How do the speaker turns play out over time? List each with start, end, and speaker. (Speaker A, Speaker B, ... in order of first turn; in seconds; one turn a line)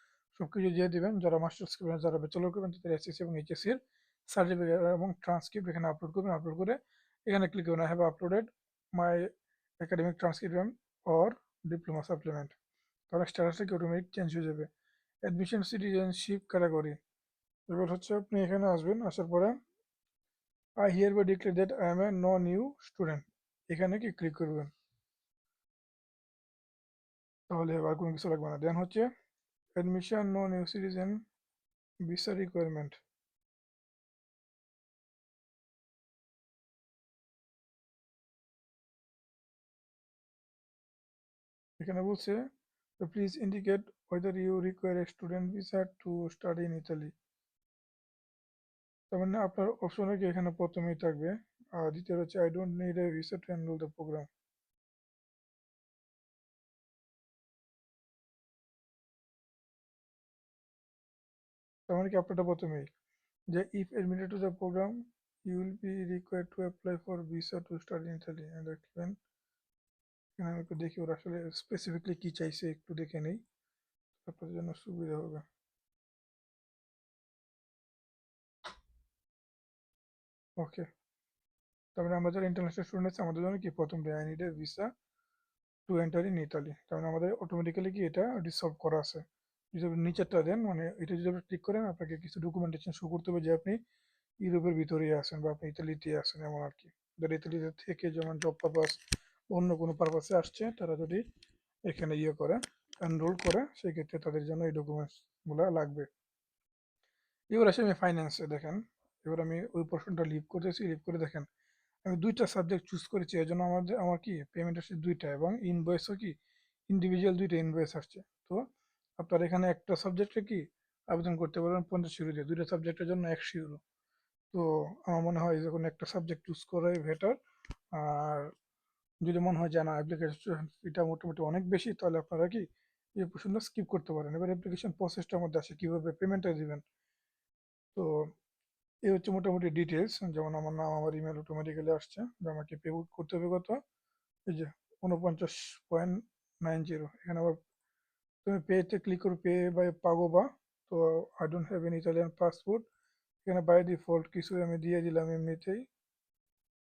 Speaker A: 0.3-9.3
Speaker A: 9.8-12.5
Speaker A: 13.1-14.7
Speaker A: 15.2-17.0
Speaker A: 17.7-19.5
Speaker A: 20.8-24.7
Speaker A: 27.5-29.1
Speaker A: 29.8-31.2
Speaker A: 32.0-33.0
Speaker A: 41.8-42.4
Speaker A: 43.0-47.1
Speaker A: 49.1-54.3
Speaker A: 61.9-62.9
Speaker A: 63.5-64.9
Speaker A: 65.5-69.2
Speaker A: 70.4-73.4
Speaker A: 74.2-75.4
Speaker A: 80.6-80.8
Speaker A: 82.0-84.9
Speaker A: 85.9-93.8
Speaker A: 94.4-101.2
Speaker A: 101.9-106.1
Speaker A: 107.5-111.5
Speaker A: 112.0-116.3
Speaker A: 116.9-118.6
Speaker A: 119.2-123.8
Speaker A: 124.5-127.3
Speaker A: 127.9-128.5
Speaker A: 129.2-132.6
Speaker A: 133.2-136.8
Speaker A: 137.9-138.3
Speaker A: 139.1-143.8
Speaker A: 144.5-147.6
Speaker A: 148.4-152.8
Speaker A: 153.4-155.8